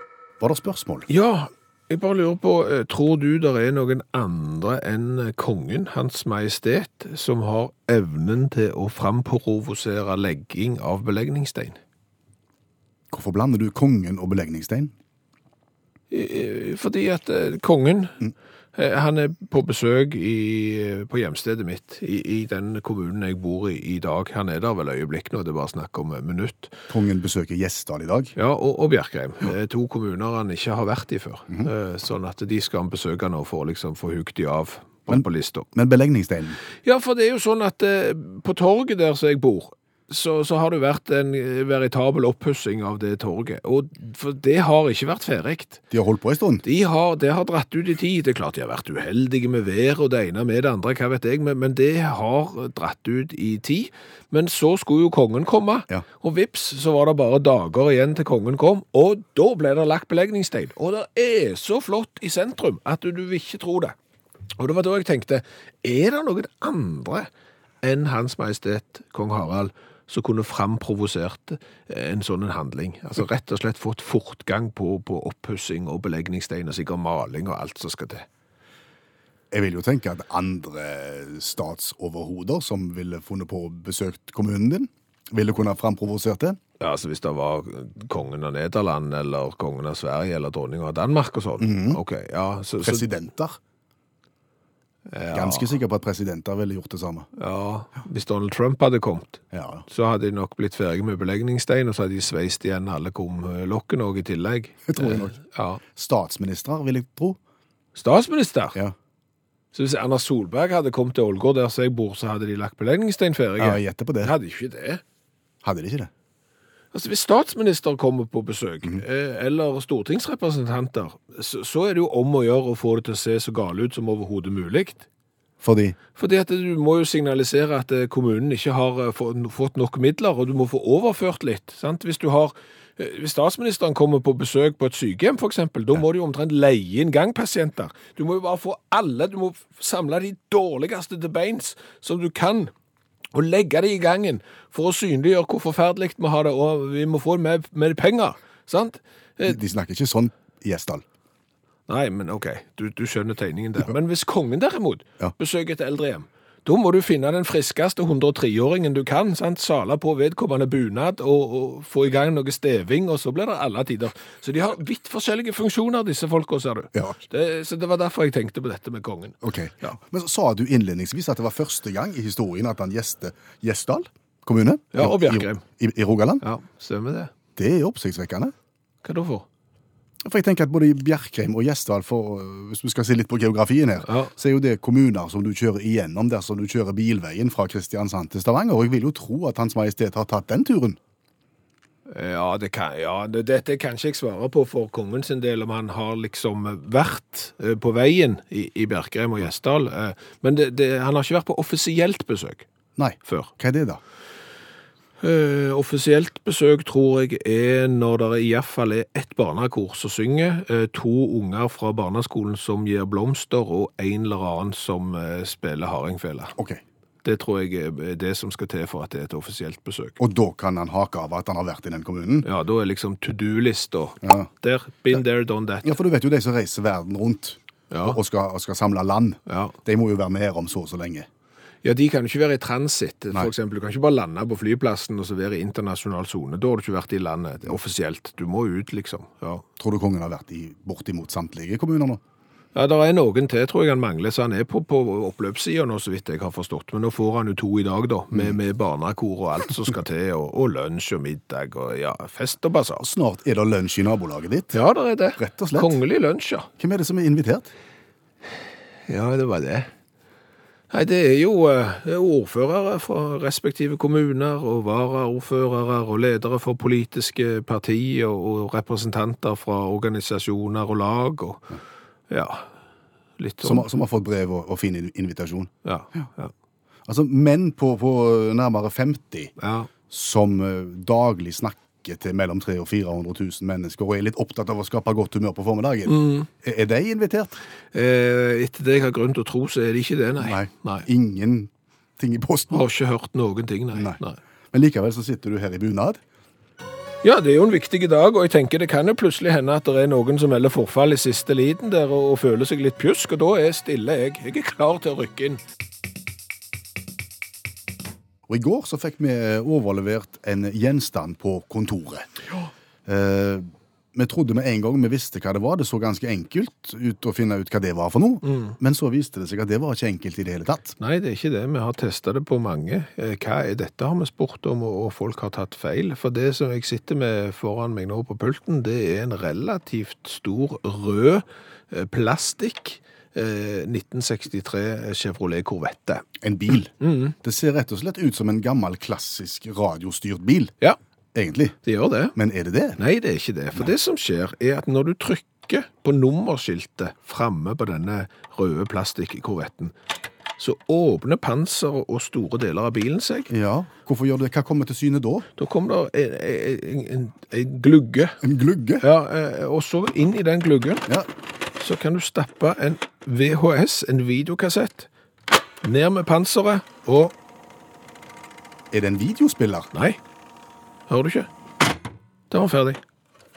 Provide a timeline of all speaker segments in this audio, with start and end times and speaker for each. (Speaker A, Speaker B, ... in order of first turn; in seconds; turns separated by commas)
Speaker A: 0.4-1.1, Speaker B: 1.1-11.8, Speaker A: 13.1-14.9, Speaker B: 16.1-18.2, Speaker B: 18.8-26.8, Speaker A: 26.9-28.4, Speaker B: 28.4-35.7, Speaker A: 35.8-36.6, Speaker B: 36.9-45.8, Speaker A: 45.9-46.6, Speaker B: 46.6-64.0, Speaker B: 64.6-67.3, Speaker B: 67.8-78.3, Speaker A: 79.5-86.6, Speaker B: 86.8-93.0, Speaker A: 91.6-92.0, Speaker A: 92.8-93.6, Speaker B: 95.1-95.8, Speaker A: 95.3-97.3, Speaker B: 97.4-105.8, Speaker A: 99.5-99.8, Speaker A: 104.9-105.4, Speaker A: 106.0-107.4, Speaker B: 108.0-108.8, Speaker B: 109.7-115.0, Speaker A: 113.6-114.3, Speaker A: 115.6-116.1, Speaker B: 116.9-125.1, Speaker A: 125.6-126.0, Speaker B: 126.2-142.7, Speaker B: 143.3-149.6, Speaker A: 149.5-151.1, Speaker B: 151.9-169.9, Speaker A: 169.4-176.4, Speaker B: 174.9-175.6, Speaker B: 176.4-177.3, Speaker A: 177.6-178.5, Speaker B: 179.0-179.5, Speaker A: 180.2-191.0, Speaker B: 184.1-184.3, Speaker B: 192.1-202.7, Speaker A: 203.0-204.0, Speaker B: 203.3-203.5, Speaker B: 205.2-216.5, Speaker A: 216.6-216.8, Speaker B: 217.2-220.2, Speaker A: 220.2-222.5, Speaker B: 222.4-225.9, Speaker A: 224.2-224.5, Speaker A: 225.8-231.3, Speaker B: 227.9-228.2, Speaker B: 229.5-229.8, Speaker B: 231.8-239.6, Speaker A: 239.8-242.2, Speaker B: 242.8-253.0, Speaker A: 248.3-248.6, Speaker A: 253.0-254.8, Speaker B: 254.7-256.7, Speaker A: 255.4-256.0, Speaker A: 256.8-257.7, Speaker B: 259.1-259.9, Speaker B: 260.9-271.8, Speaker B: 272.3-272.7, Speaker B: 273.4-273.9, Speaker A: 273.6-275.7, Speaker B: 275.9-276.5, Speaker A: 277.1-279.5, Speaker B: 279.6-279.9, Speaker A: 280.1-287.5, Speaker B: 286.1-286.5, Speaker B: 287.9-291.1, Speaker A: 290.4-292.8, Speaker B: 292.7-294.4, Speaker A: 293.9-294.2, Speaker A: 294.7-296.2, Speaker B: 297.2-305.6, Speaker A: 308.5-312.3, Speaker A: 313.1-321.0, Speaker B: 318.4-318.8, Speaker B: 321.0-336.2, Speaker A: 336.4-336.9, Speaker B: 337.0-337.4, Speaker A: 337.4-340.7, Speaker A: 341.3-341.8, Speaker B: 341.9-342.4, Speaker A: 342.4-343.0, Speaker B: 343.0-349.9, Speaker B: 350.6-353.5, Speaker A: 353.5-355.5, Speaker B: 355.6-358.4, Speaker A: 358.4-359.1, Speaker B: 359.0-361.1, Speaker B: 361.8-365.1, Speaker B: 365.8-367.3, Speaker A: 368.9-369.9, Speaker B: 369.9-370.2, Speaker B: 371.1-371.5, Speaker B: 372.5-373.0